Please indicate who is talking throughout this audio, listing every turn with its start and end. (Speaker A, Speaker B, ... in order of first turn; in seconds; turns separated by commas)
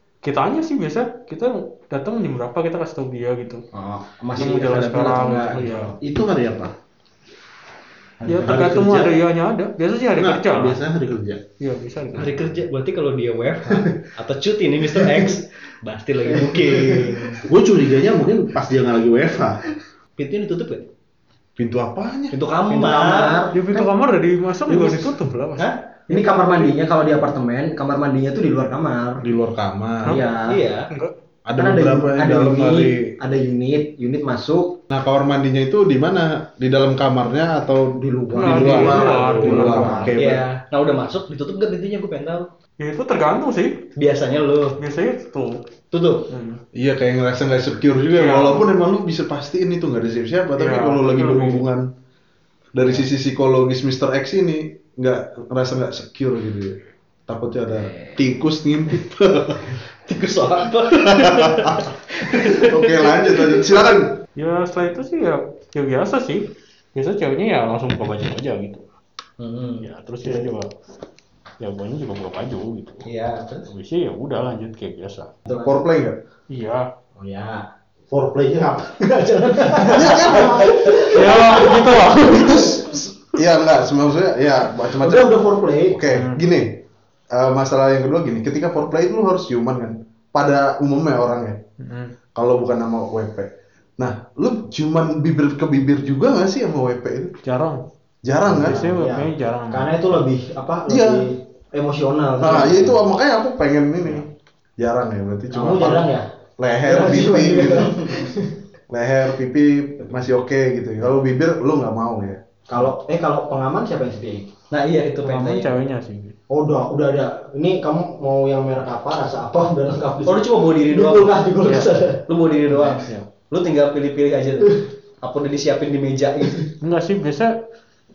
Speaker A: 0.2-3.6, Speaker B: 3.7-6.0, Speaker A: 4.3-5.9, Speaker C: 6.0-6.7, Speaker B: 8.2-8.7, Speaker A: 8.2-10.8, Speaker C: 8.3-9.2, Speaker C: 10.2-11.4, Speaker A: 11.6-12.5, Speaker D: 12.1-17.4, Speaker B: 14.9-15.3, Speaker B: 16.3-17.4, Speaker C: 17.5-19.6, Speaker D: 20.2-20.9, Speaker E: 21.6-22.4, Speaker D: 22.3-23.4, Speaker B: 22.7-23.9, Speaker A: 23.5-26.7, Speaker B: 26.1-29.2, Speaker E: 29.2-30.2, Speaker B: 30.1-30.6, Speaker D: 30.5-30.9, Speaker E: 31.5-33.1, Speaker B: 31.6-34.8, Speaker E: 34.9-40.4, Speaker B: 38.0-40.1, Speaker A: 38.3-40.2, Speaker C: 38.6-40.0, Speaker D: 40.2-42.5, Speaker A: 42.8-43.9, Speaker D: 44.0-44.8, Speaker A: 44.8-45.6, Speaker D: 45.9-46.3, Speaker A: 46.3-46.6, Speaker E: 46.7-51.9, Speaker A: 48.1-48.7, Speaker A: 50.6-51.6, Speaker E: 52.7-59.8, Speaker D: 60.0-63.6, Speaker E: 60.9-61.9, Speaker E: 62.4-64.2, Speaker A: 64.4-68.8, Speaker D: 69.4-69.9, Speaker A: 69.8-70.7, Speaker A: 71.6-73.0, Speaker D: 73.0-73.7, Speaker A: 73.7-75.3, Speaker B: 75.5-75.8, Speaker E: 75.6-76.2, Speaker A: 76.5-76.9, Speaker B: 77.2-77.6, Speaker C: 78.1-79.0, Speaker B: 79.0-82.9, Speaker E: 79.9-80.7, Speaker A: 81.0-83.1, Speaker E: 83.3-85.3, Speaker B: 85.0-86.2, Speaker E: 85.9-86.8, Speaker A: 86.0-86.4, Speaker E: 87.3-91.6, Speaker A: 91.8-92.1, Speaker E: 92.3-97.3, Speaker A: 97.4-97.8, Speaker E: 98.2-98.9, Speaker B: 98.5-103.0, Speaker A: 98.6-100.0, Speaker E: 100.9-101.2, Speaker E: 102.4-107.9, Speaker B: 105.5-106.3, Speaker B: 106.8-108.6, Speaker D: 107.7-108.2, Speaker E: 108.9-112.4, Speaker B: 112.7-114.5, Speaker D: 114.7-115.7, Speaker A: 115.2-116.3, Speaker B: 116.5-122.2, Speaker D: 120.2-121.4, Speaker A: 121.6-121.9, Speaker D: 122.3-126.7, Speaker A: 122.7-123.2, Speaker A: 126.8-127.5